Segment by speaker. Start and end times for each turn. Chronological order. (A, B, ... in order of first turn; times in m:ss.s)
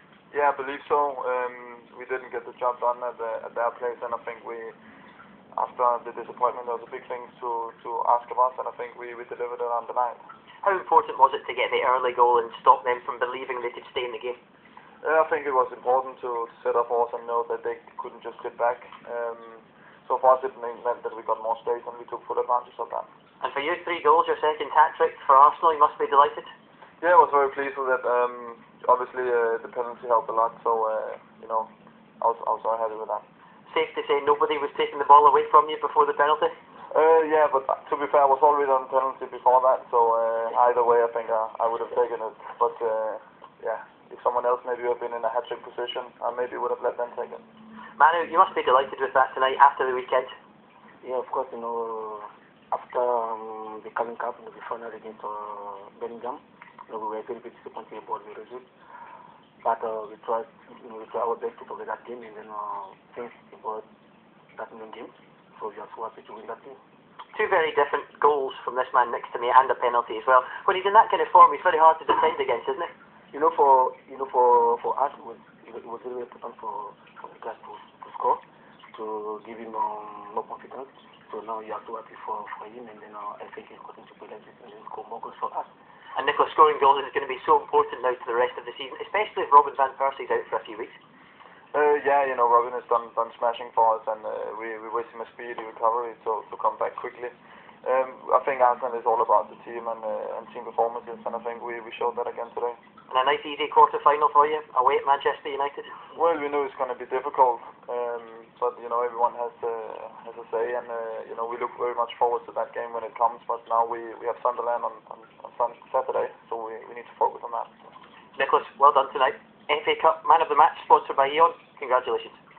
0:00.3-0:04.8 A
0:05.5-0:10.2 A
0:10.6-0:14.4 B
0:15.0-0:23.1 A
0:23.4-0:26.5 B
0:27.0-0:31.7 A
0:32.2-0:33.2 A
0:33.7-0:36.5 B
0:36.9-0:47.4 A
0:48.0-0:50.3 B
0:51.0-0:58.7 C
0:59.6-1:03.9 C
1:04.6-1:06.8 C
1:07.3-1:12.9 B
1:13.3-1:18.4 C
1:18.9-1:25.7 C
1:26.2-1:31.0 B
1:31.7-1:37.3 A
1:37.8-1:42.8 A
1:43.1-1:45.9 B
1:46.1-1:57.7 A
1:58.4-2:02.4 B